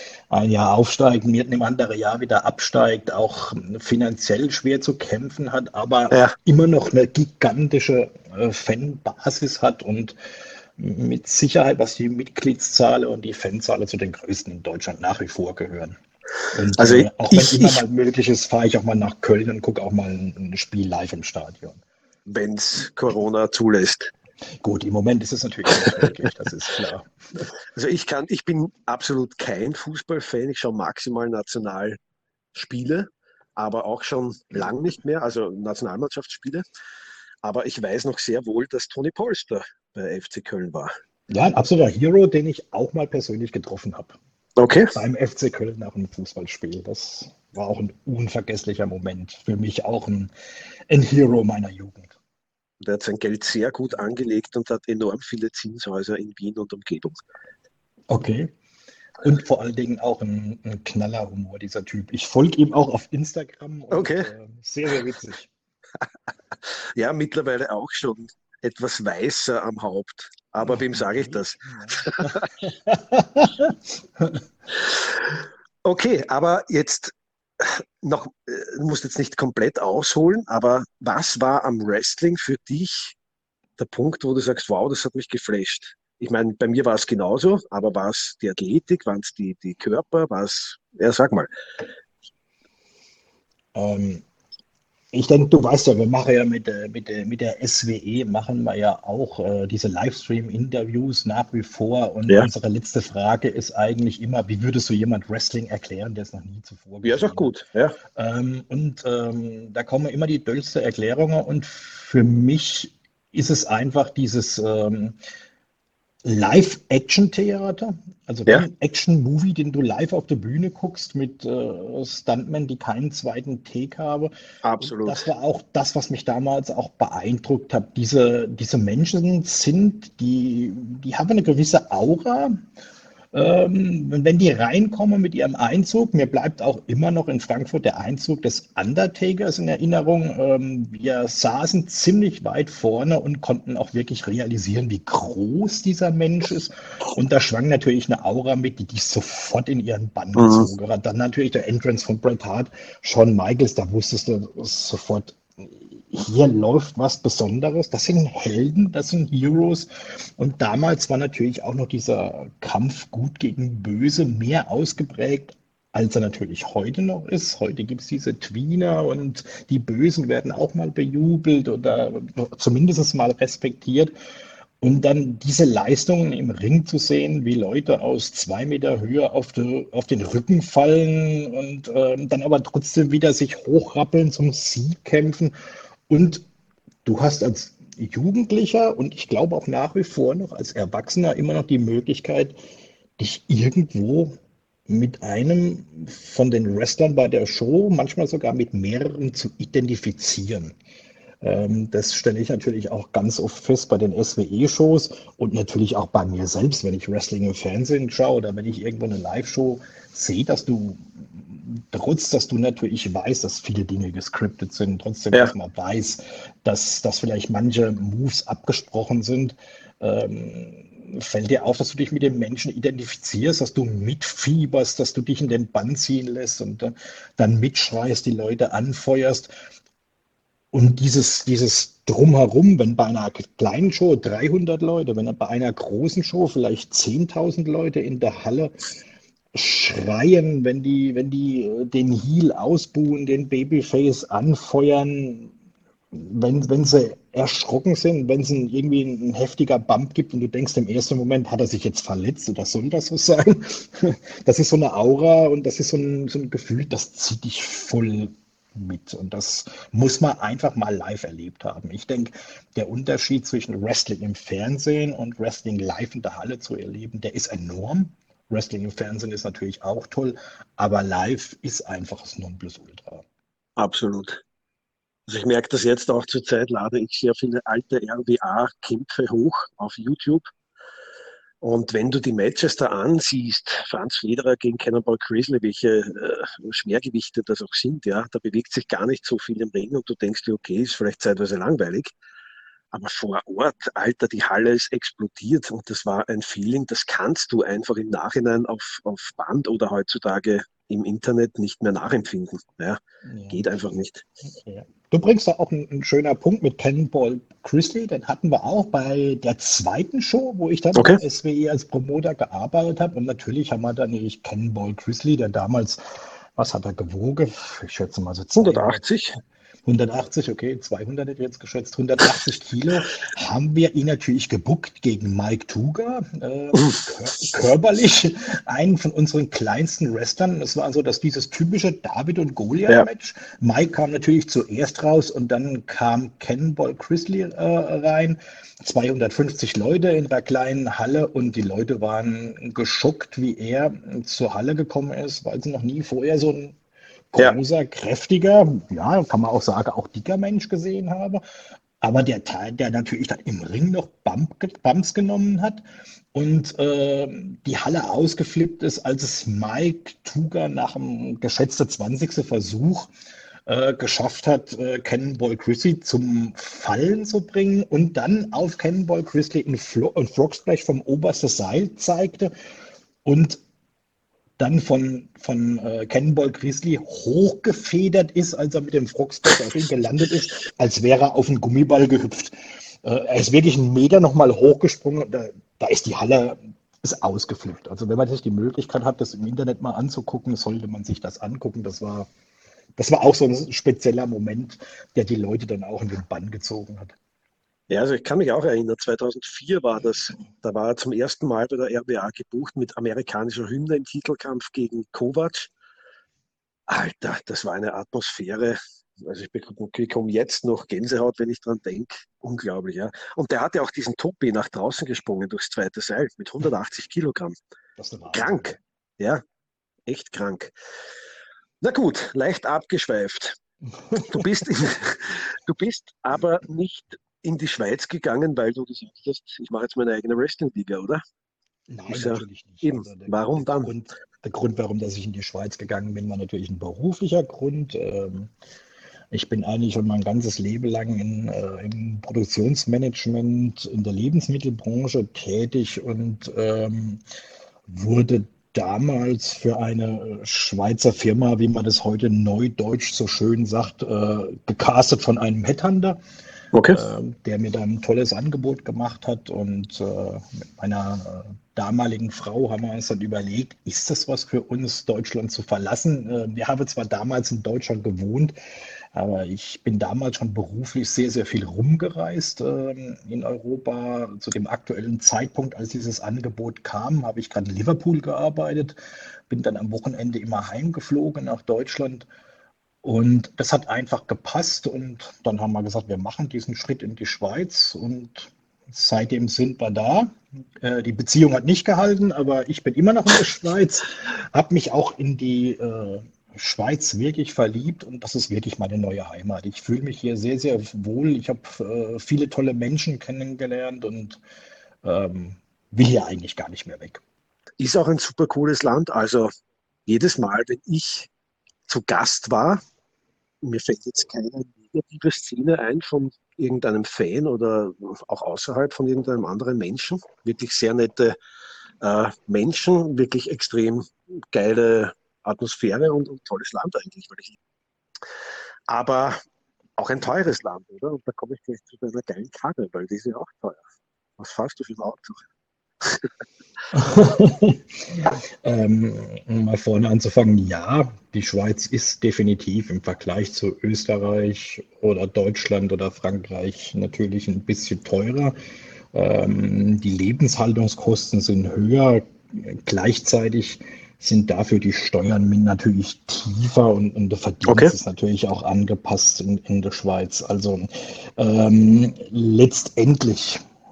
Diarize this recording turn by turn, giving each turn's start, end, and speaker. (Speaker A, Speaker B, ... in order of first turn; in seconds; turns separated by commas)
Speaker A: 0.3-10.1, Speaker A: 10.8-16.0, Speaker A: 16.5-21.8, Speaker B: 16.8-17.8, Speaker B: 22.3-24.1, Speaker A: 24.6-27.1, Speaker B: 27.6-32.0, Speaker B: 32.5-36.6, Speaker B: 37.4-40.9, Speaker A: 41.3-44.2, Speaker B: 44.6-44.9, Speaker A: 44.9-50.3, Speaker A: 50.9-52.1, Speaker B: 52.8-57.2, Speaker A: 58.1-58.5, Speaker A: 59.2-65.5, Speaker B: 63.9-64.3, Speaker B: 67.0-72.5, Speaker A: 70.6-74.4, Speaker B: 74.9-83.1, Speaker B: 83.8-91.5, Speaker A: 93.7-94.2, Speaker A: 95.1-107.5, Speaker B: 107.0-108.0, Speaker A: 108.1-115.2, Speaker A: 116.2-132.6, Speaker B: 124.6-125.2, Speaker A: 133.3-174.1, Speaker B: 150.4-150.7, Speaker A: 174.8-185.5, Speaker A: 186.1-186.4, Speaker A: 187.0-192.6, Speaker A: 193.2-194.3, Speaker A: 194.9-200.8, Speaker A: 201.4-229.5, Speaker A: 230.7-238.7, Speaker A: 239.5-245.5, Speaker A: 246.1-273.2, Speaker B: 273.8-274.4, Speaker B: 275.3-280.4, Speaker B: 281.6-292.1, Speaker B: 292.9-304.2, Speaker A: 303.2-303.7, Speaker A: 304.6-316.0, Speaker B: 310.9-311.2, Speaker A: 316.6-319.1, Speaker B: 318.6-319.4, Speaker A: 319.9-346.8, Speaker A: 347.3-351.4, Speaker A: 352.0-355.8, Speaker A: 356.3-363.1, Speaker A: 363.7-372.5, Speaker A: 373.2-373.6, Speaker A: 374.6-392.3, Speaker A: 393.0-397.1, Speaker B: 397.9-405.7, Speaker B: 406.9-417.6, Speaker A: 418.0-418.8, Speaker B: 418.3-419.4, Speaker B: 420.1-420.7, Speaker B: 421.8-423.6, Speaker A: 424.0-424.6, Speaker B: 424.1-431.2, Speaker A: 431.9-438.5, Speaker B: 432.1-433.9, Speaker A: 439.3-447.2, Speaker A: 447.9-456.2, Speaker B: 456.7-457.0, Speaker A: 456.9-468.5, Speaker A: 469.1-478.9, Speaker A: 479.5-482.3, Speaker A: 483.0-504.4, Speaker A: 505.0-507.2, Speaker B: 507.8-509.5, Speaker B: 510.1-511.3, Speaker B: 511.9-512.8, Speaker B: 513.6-521.4, Speaker B: 522.0-527.6, Speaker B: 528.9-529.4, Speaker B: 530.0-533.8, Speaker B: 534.4-535.4, Speaker B: 536.0-536.3, Speaker A: 536.9-548.5, Speaker A: 549.1-563.6, Speaker B: 557.7-557.9